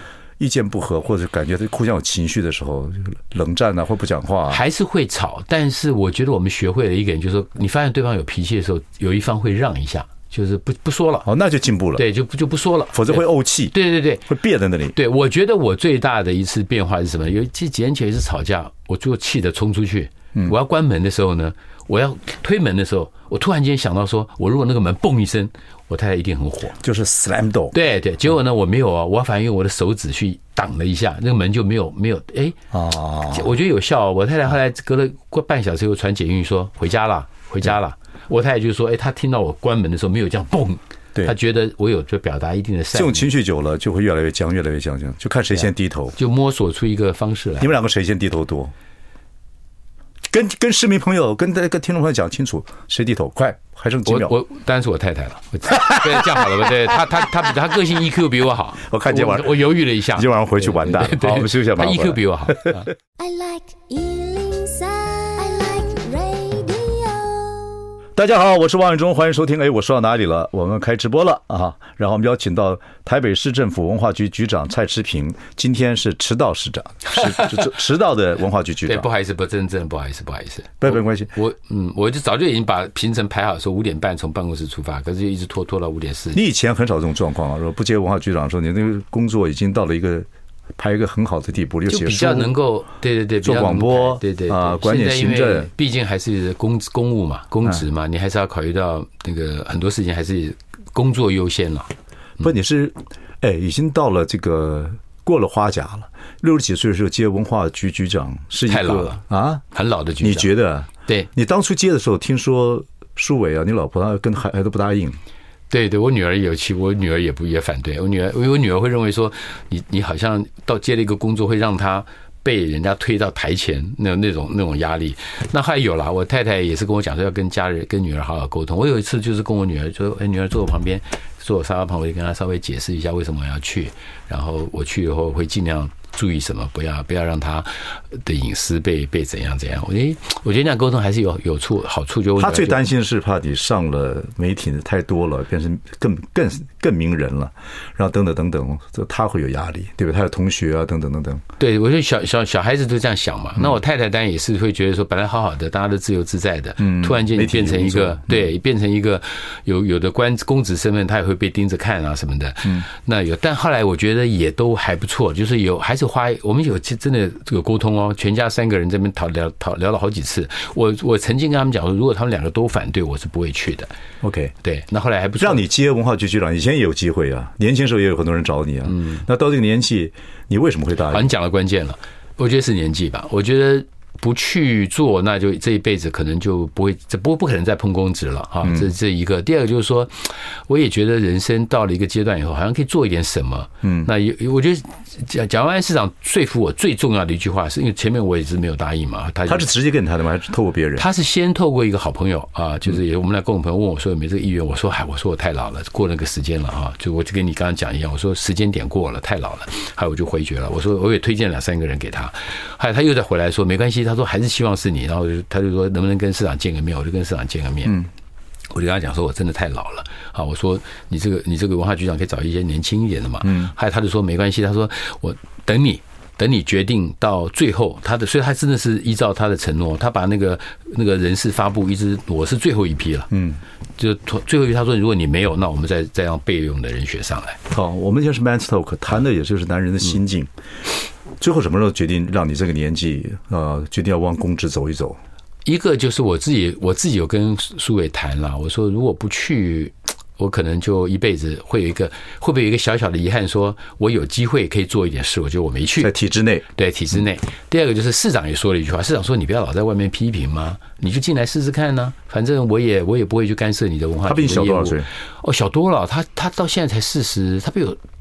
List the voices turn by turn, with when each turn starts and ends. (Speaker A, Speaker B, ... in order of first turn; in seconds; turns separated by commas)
Speaker A: 0.4-4.6, Speaker B: 4.5-11.3, Speaker A: 11.3-12.1, Speaker B: 12.0-14.3, Speaker A: 12.9-13.8, Speaker A: 14.3-15.0, Speaker B: 14.9-26.8, Speaker A: 26.8-27.8, Speaker B: 27.7-32.6, Speaker A: 32.7-33.5, Speaker B: 33.3-43.3, Speaker A: 42.9-46.2, Speaker B: 46.2-47.7, Speaker A: 47.6-48.7, Speaker A: 50.3-54.4, Speaker B: 54.1-62.9, Speaker A: 55.7-56.7, Speaker A: 58.9-62.8, Speaker C: 63.2-67.9, Speaker A: 68.2-79.1, Speaker B: 78.9-86.4, Speaker A: 80.8-81.3, Speaker A: 86.3-90.3, Speaker A: 90.8-92.5, Speaker B: 91.9-101.9, Speaker A: 93.4-95.7, Speaker A: 102.4-109.6, Speaker B: 108.7-110.5, Speaker A: 110.2-115.2, Speaker B: 115.7-142.8, Speaker A: 142.4-151.4, Speaker B: 151.6-173.9, Speaker A: 156.8-158.5, Speaker A: 174.2-174.6, Speaker B: 174.6-175.7, Speaker A: 175.4-181.3, Speaker B: 178.9-179.2, Speaker B: 181.1-199.7, Speaker A: 188.6-188.9, Speaker A: 193.8-194.1, Speaker A: 199.5-201.1, Speaker B: 201.0-218.1, Speaker B: 218.7-233.3, Speaker A: 223.4-223.7, Speaker A: 233.3-233.6, Speaker B: 234.0-237.6, Speaker A: 237.7-240.5, Speaker A: 241.4-245.2, Speaker B: 245.7-256.1, Speaker A: 256.0-256.6, Speaker B: 256.7-268.0, Speaker A: 264.3-265.1